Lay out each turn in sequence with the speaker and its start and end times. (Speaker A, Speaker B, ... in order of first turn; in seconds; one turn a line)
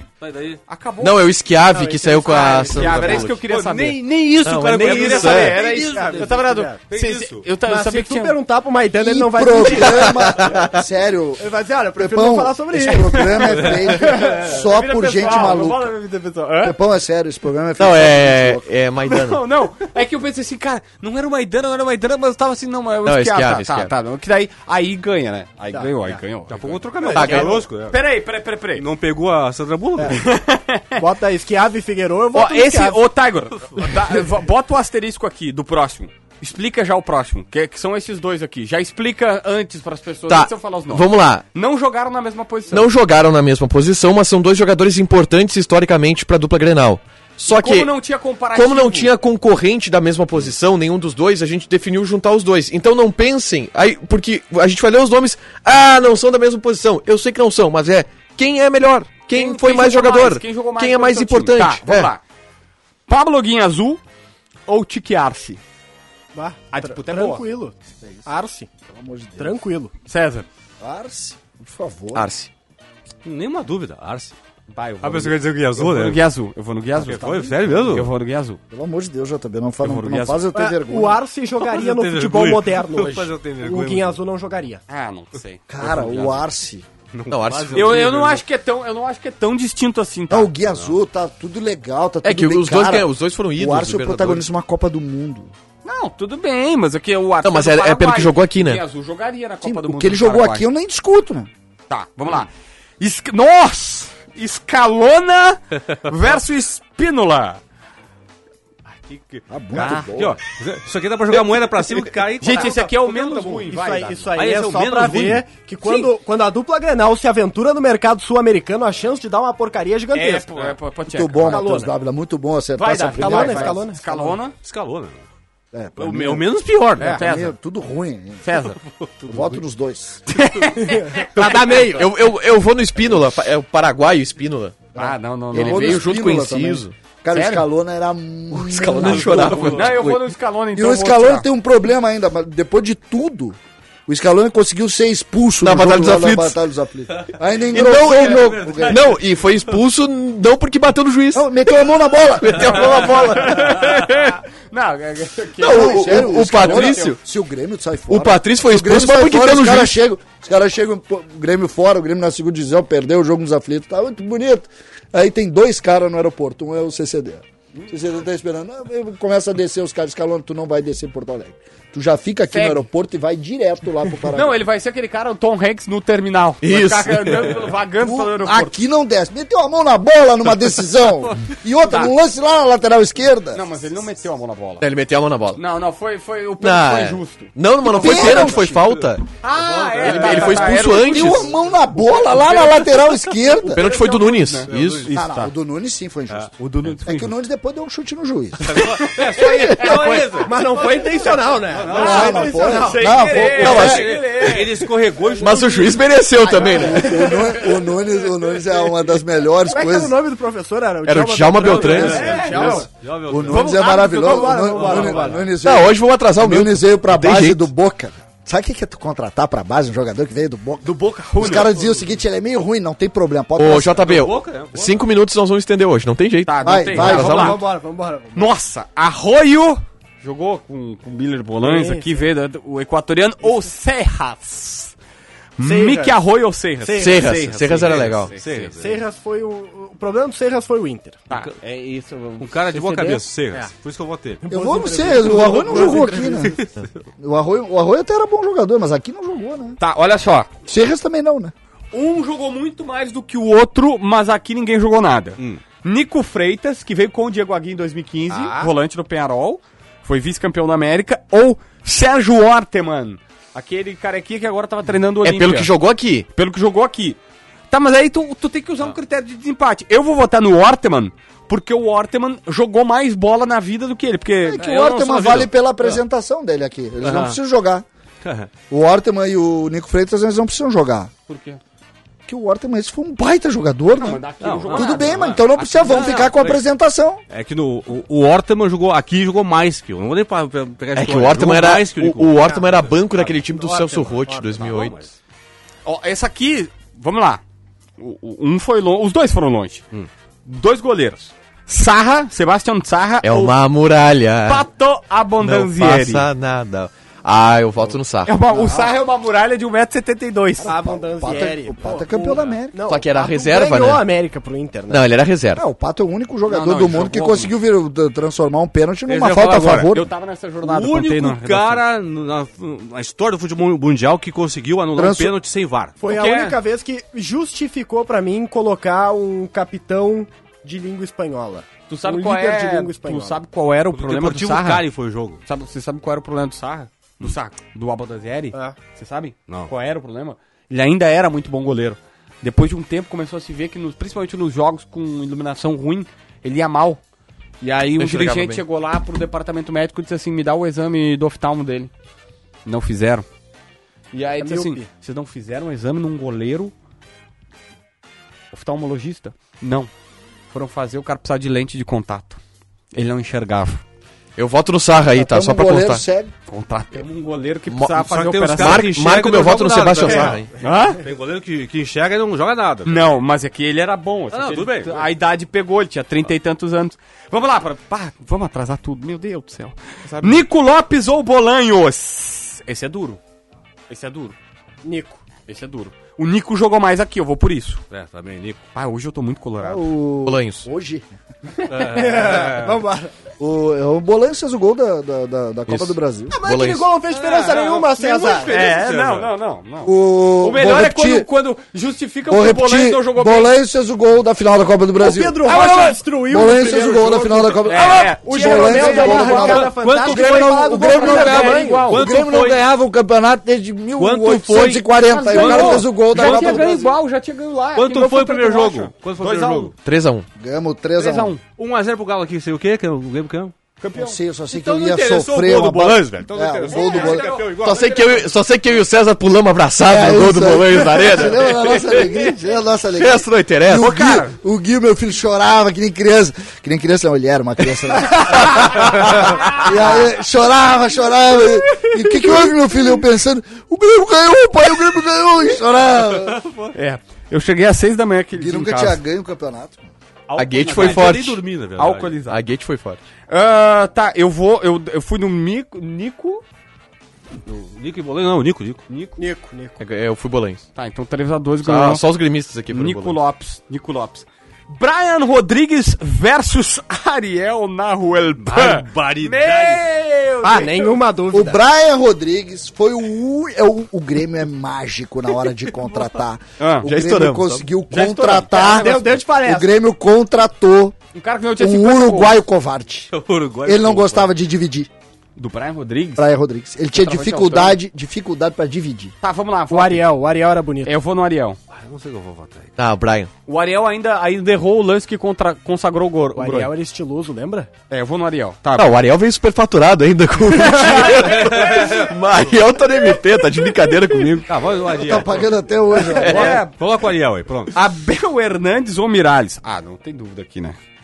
Speaker A: 0.2-0.6
Speaker B: 0.7-1.3
Speaker C: 1.0-3.4
Speaker D: 1.7-3.2
Speaker B: 2.3-8.4
Speaker A: 3.1-7.5
Speaker C: 4.4-5.6
Speaker D: 4.8-6.8
Speaker D: 7.6-10.5
Speaker E: 9.0-15.9
Speaker C: 9.8-10.8
Speaker D: 11.4-14.5
Speaker B: 13.1-16.8
Speaker E: 16.6-18.7
Speaker C: 17.8-19.4
Speaker B: 19.1-28.8
Speaker C: 23.1-23.9
Speaker D: 25.7-26.2
Speaker A: 26.5-28.0
Speaker D: 27.0-27.6
Speaker C: 27.1-27.6
Speaker A: 28.8-30.3
Speaker D: 30.0-30.2
Speaker B: 30.0-31.0
Speaker D: 31.0-33.0
Speaker B: 32.3-42.9
Speaker C: 40.3-41.5
Speaker C: 42.7-47.9
Speaker B: 47.5-49.1
Speaker C: 48.5-62.1
Speaker B: 59.3-62.2
Speaker B: 63.1-64.0
Speaker B: 64.7-65.6
Speaker D: 66.3-67.7
Speaker B: 66.7-67.5
Speaker E: 68.0-68.3
Speaker D: 68.3-68.7
Speaker E: 68.9-69.6
Speaker D: 69.4-69.9
Speaker B: 70.0-70.5
Speaker E: 70.8-72.3
Speaker C: 72.1-72.5
Speaker A: 73.2-74.4
Speaker B: 74.7-78.6
Speaker A: 75.0-76.2
Speaker A: 77.0-78.1
Speaker E: 78.7-81.2
Speaker B: 79.8-80.4
Speaker D: 80.5-84.8
Speaker A: 81.6-84.2
Speaker B: 84.9-86.4
Speaker E: 85.7-86.9
Speaker A: 87.1-88.4
Speaker C: 87.3-88.1
Speaker B: 87.7-90.5
Speaker E: 90.3-95.5
Speaker A: 90.7-90.9
Speaker C: 92.2-94.4
Speaker B: 95.8-100.7
Speaker C: 97.4-98.8
Speaker E: 99.6-101.5
Speaker B: 101.9-107.6
Speaker B: 109.1-110.1
Speaker A: 109.3-113.6
Speaker E: 109.5-110.4
Speaker B: 111.3-111.7
Speaker B: 112.2-114.3
Speaker D: 112.4-120.7
Speaker A: 114.3-115.5
Speaker B: 115.8-116.1
Speaker B: 120.1-121.7
Speaker E: 121.1-123.9
Speaker D: 121.5-121.9
Speaker B: 122.8-124.5
Speaker D: 122.9-124.4
Speaker A: 124.6-125.2
Speaker E: 125.7-126.5
Speaker A: 126.0-127.2
Speaker B: 127.0-127.5
Speaker E: 127.0-128.4
Speaker B: 128.4-128.8
Speaker A: 128.8-129.6
Speaker E: 129.3-130.2
Speaker B: 130.3-131.6
Speaker D: 130.8-132.2
Speaker C: 131.4-134.8
Speaker B: 134.9-136.1
Speaker E: 135.0-139.8
Speaker C: 135.5-136.9
Speaker B: 137.3-137.6
Speaker C: 138.5-140.3
Speaker A: 139.0-140.0
Speaker B: 139.6-141.5
Speaker E: 140.7-149.1
Speaker C: 145.6-146.6
Speaker C: 147.7-151.7
Speaker A: 148.2-149.6
Speaker E: 151.3-153.2
Speaker C: 152.4-153.9
Speaker B: 153.1-157.2
Speaker C: 155.6-157.2
Speaker E: 155.7-174.6
Speaker C: 158.1-159.9
Speaker B: 172.5-172.9
Speaker B: 174.3-178.8
Speaker C: 176.6-177.7
Speaker E: 177.9-183.7
Speaker B: 181.8-182.1
Speaker B: 183.5-184.9
Speaker C: 184.8-185.6
Speaker B: 185.6-188.4
Speaker C: 186.6-189.2
Speaker E: 187.9-188.9
Speaker A: 188.2-190.8
Speaker B: 189.4-195.5
Speaker C: 189.9-191.4
Speaker E: 190.8-193.9
Speaker C: 193.7-195.1
Speaker A: 194.7-195.1
Speaker E: 195.1-198.9
Speaker B: 196.6-197.3
Speaker A: 198.6-202.9
Speaker B: 198.7-200.5
Speaker D: 199.3-203.5
Speaker B: 201.2-204.8
Speaker E: 201.9-204.0
Speaker C: 203.5-204.6
Speaker A: 203.6-205.9
Speaker D: 205.4-205.7
Speaker C: 205.4-207.2
Speaker D: 206.4-207.6
Speaker E: 206.6-210.2
Speaker D: 209.6-212.9
Speaker C: 211.0-212.3
Speaker A: 211.6-213.9
Speaker B: 211.8-212.8
Speaker E: 211.8-224.1
Speaker D: 213.5-215.6
Speaker B: 213.5-215.1
Speaker A: 214.7-215.4
Speaker C: 215.6-217.7
Speaker B: 220.8-221.7
Speaker A: 221.3-222.0
Speaker C: 223.6-227.6
Speaker A: 223.9-225.1
Speaker B: 226.4-227.6
Speaker E: 226.6-227.6
Speaker D: 226.9-228.5
Speaker B: 228.3-234.9
Speaker D: 231.6-232.1
Speaker B: 235.6-238.7
Speaker D: 235.6-236.2
Speaker D: 236.8-237.6
Speaker C: 237.0-238.3
Speaker A: 237.0-239.0
Speaker D: 238.7-241.2
Speaker B: 241.3-242.4
Speaker A: 241.3-241.6
Speaker A: 242.4-244.4
Speaker D: 242.4-243.7
Speaker D: 244.4-246.7
Speaker E: 244.5-246.6
Speaker A: 245.2-245.9
Speaker E: 247.2-249.8
Speaker B: 249.8-250.5
Speaker E: 250.7-251.5
Speaker B: 251.9-265.7
Speaker C: 265.2-266.3
Speaker B: 266.3-267.2
Speaker B: 267.7-275.5
Speaker E: 274.4-277.8
Speaker A: 277.0-277.4
Speaker A: 278.2-278.5
Speaker E: 278.7-281.1
Speaker B: 281.3-281.6
Speaker E: 282.3-287.2
Speaker B: 283.9-286.2
Speaker A: 284.4-286.6
Speaker A: 287.3-293.0
Speaker C: 290.9-294.9
Speaker D: 292.5-294.9
Speaker A: 294.6-295.1
Speaker B: 295.8-297.4
Speaker B: 298.0-299.8
Speaker B: 300.4-303.6
Speaker C: 303.2-304.7
Speaker B: 304.4-306.3
Speaker C: 305.4-308.3
Speaker B: 308.2-310.7
Speaker D: 308.5-308.9
Speaker E: 310.6-312.9
Speaker D: 310.6-315.1
Speaker C: 312.9-314.1
Speaker C: 314.9-315.6
Speaker E: 315.6-320.1
Speaker B: 316.5-317.5
Speaker A: 319.1-319.9
Speaker B: 319.4-321.9
Speaker A: 320.6-325.9
Speaker E: 324.9-325.4
Speaker D: 326.0-333.4
Speaker B: 326.0-326.6
Speaker B: 331.9-334.9
Speaker A: 333.9-335.4
Speaker B: 335.4-347.0
Speaker B: 347.6-351.9
Speaker C: 348.0-348.6
Speaker B: 352.6-353.3
Speaker B: 354.1-356.7
Speaker D: 354.4-354.9
Speaker B: 358.5-359.9
Speaker B: 360.5-362.4
Speaker B: 362.9-363.8
Speaker C: 364.4-366.0
Speaker E: 365.0-366.3
Speaker B: 366.5-368.9
Speaker C: 367.7-370.5
Speaker A: 368.0-373.1
Speaker B: 370.6-371.0
Speaker B: 372.8-383.2
Speaker A: 374.3-375.1
Speaker C: 380.1-380.4
Speaker B: 383.9-384.4
Speaker D: 384.8-385.2
Speaker B: 385.5-387.8
Speaker A: 387.9-388.6
Speaker B: 388.7-389.9
Speaker E: 389.6-391.1
Speaker C: 390.3-390.7
Speaker D: 391.7-393.1
Speaker A: 391.7-392.8
Speaker E: 393.4-396.4
Speaker C: 395.7-396.9
Speaker D: 396.3-398.6
Speaker B: 397.1-403.5
Speaker A: 397.3-399.3
Speaker E: 399.8-401.3
Speaker E: 402.3-416.9
Speaker D: 405.0-411.9
Speaker B: 405.4-406.0
Speaker B: 407.7-412.1
Speaker A: 409.3-412.6
Speaker A: 414.0-416.8
Speaker B: 415.1-419.7
Speaker A: 417.7-419.7
Speaker C: 419.8-420.3
Speaker E: 420.4-421.4
Speaker B: 420.9-421.4
Speaker A: 421.6-423.5
Speaker B: 423.8-424.2
Speaker E: 423.9-427.3
Speaker A: 424.5-428.0
Speaker B: 426.7-428.1
Speaker C: 427.5-432.1
Speaker E: 429.8-446.4
Speaker C: 433.0-433.9
Speaker B: 433.8-434.3
Speaker C: 438.4-439.6
Speaker A: 446.2-446.7
Speaker B: 446.7-449.0
Speaker E: 448.3-449.9
Speaker B: 450.3-451.2
Speaker A: 450.3-452.2
Speaker C: 450.4-451.4
Speaker B: 451.8-452.4
Speaker C: 452.3-453.0
Speaker B: 453.3-456.4
Speaker A: 457.4-458.8
Speaker B: 458.9-459.2
Speaker D: 459.2-459.8
Speaker C: 459.8-460.6
Speaker B: 460.7-462.0
Speaker C: 461.6-463.2
Speaker B: 462.7-471.0
Speaker A: 468.4-469.8
Speaker D: 470.4-471.6
Speaker E: 471.3-481.0
Speaker B: 476.6-476.9
Speaker C: 476.8-477.6
Speaker B: 477.9-479.0
Speaker D: 478.5-479.7
Speaker B: 481.1-482.4
Speaker E: 481.6-483.1
Speaker A: 483.1-484.3
Speaker E: 483.6-484.9
Speaker B: 485.4-486.3
Speaker E: 486.2-489.1
Speaker B: 486.9-487.8
Speaker B: 489.2-490.1
Speaker D: 489.7-490.9
Speaker B: 490.8-491.6
Speaker A: 491.7-492.8
Speaker C: 492.8-493.3
Speaker B: 493.4-496.7
Speaker D: 496.3-497.7
Speaker B: 497.9-498.9
Speaker C: 498.7-504.5
Speaker B: 500.6-501.2
Speaker A: 501.1-502.1
Speaker A: 504.5-505.5
Speaker E: 504.9-506.6
Speaker A: 506.1-507.7
Speaker B: 506.1-506.7
Speaker B: 507.7-510.8